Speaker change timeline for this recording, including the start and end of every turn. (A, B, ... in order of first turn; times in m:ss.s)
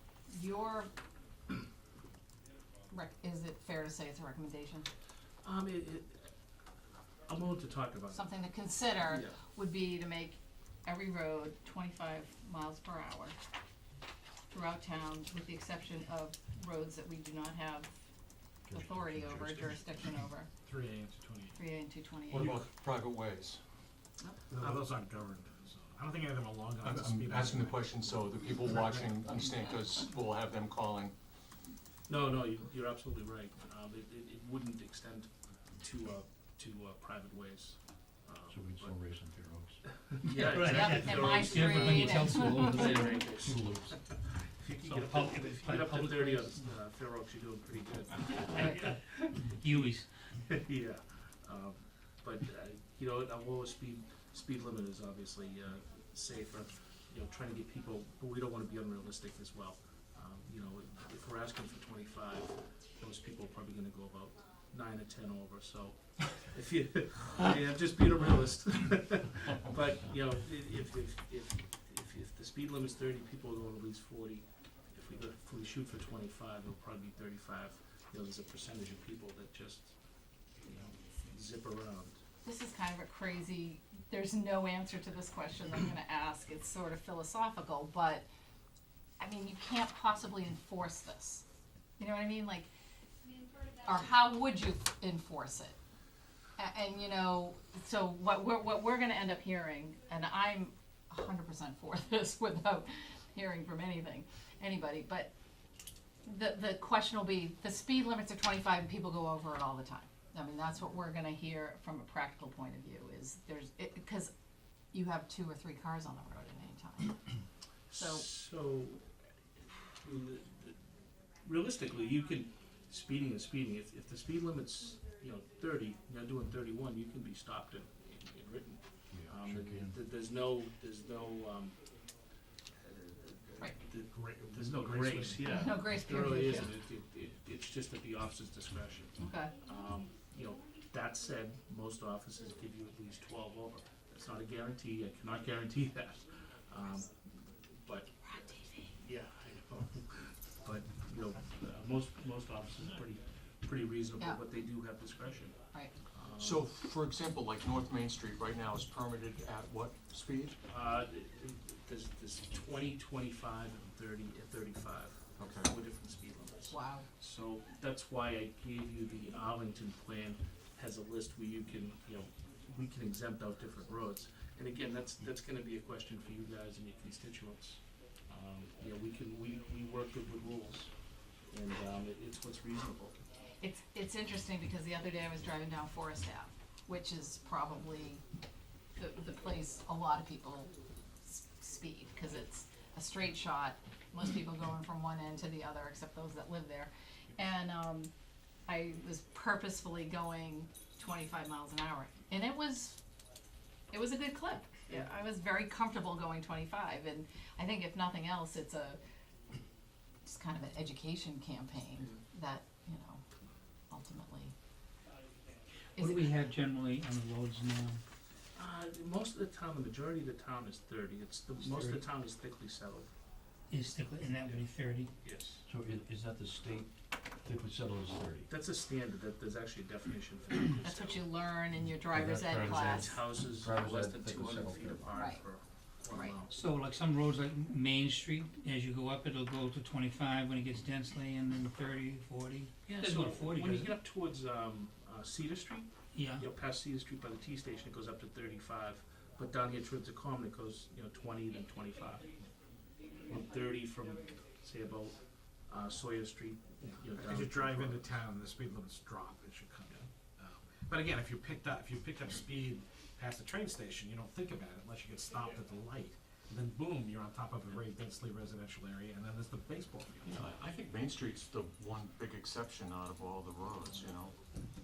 0:00.3-0:00.9 A
0:02.9-0:04.9 A
0:05.4-0:06.2 B
0:07.3-0:08.2 B
0:08.1-0:13.4 A
0:09.0-0:09.3 B
0:14.5-0:17.9 A
0:18.7-0:19.6 C
0:18.7-0:20.5 A
0:20.6-0:21.6 D
0:21.6-0:22.6 A
0:22.3-0:23.6 E
0:24.5-0:29.1 D
0:26.8-0:31.1 E
0:32.1-0:39.0 B
0:38.5-0:39.8 C
0:40.1-0:49.9 B
0:40.2-0:43.1 F
0:40.6-0:43.0 A
0:42.6-0:44.0 C
0:44.8-0:46.7 F
0:48.6-0:48.9 F
0:49.5-0:50.1 F
0:50.5-1:19.9 B
1:20.6-1:22.2 B
1:22.4-1:28.3 A
1:29.2-1:31.4 A
1:32.0-1:32.7 A
1:33.8-1:35.8 A
1:36.6-1:45.3 A
1:46.2-1:54.3 A
1:54.9-1:57.2 A
1:57.9-1:59.0 B
1:57.9-1:58.2 A
2:00.0-2:00.8 B
2:01.4-2:11.8 B
2:09.1-2:09.9 C
2:12.8-2:28.1 B
2:14.1-2:15.7 D
2:15.4-2:16.7 A
2:19.2-2:19.5 A
2:28.3-2:28.8 A
2:29.0-2:35.6 B
2:36.1-2:36.6 B
2:36.4-2:40.6 E
2:40.7-3:00.9 B
2:45.4-2:45.7 E
2:46.7-2:47.1 A
3:01.5-3:03.2 B
3:03.6-3:08.2 A
3:09.0-3:10.7 A
3:11.3-3:18.1 A
3:18.7-3:23.0 A
3:23.9-3:29.0 A
3:30.2-3:33.2 A
3:33.9-3:34.5 A
3:36.0-3:36.3 A
3:36.0-3:38.0 F
3:38.6-3:43.1 B
3:41.6-3:42.0 F
3:43.7-3:45.1 F
3:45.2-3:45.6 B
3:45.7-3:46.9 C
3:47.4-3:48.5 C
3:48.5-3:51.3 B
3:50.8-3:53.2 A
3:52.0-3:55.1 C
3:52.5-3:56.6 B
3:55.1-3:55.4 A
3:56.5-4:03.9 F
4:02.8-4:12.3 B
4:06.1-4:06.4 F
4:13.3-4:18.2 B
4:17.2-4:30.4 D
4:30.2-4:34.3 E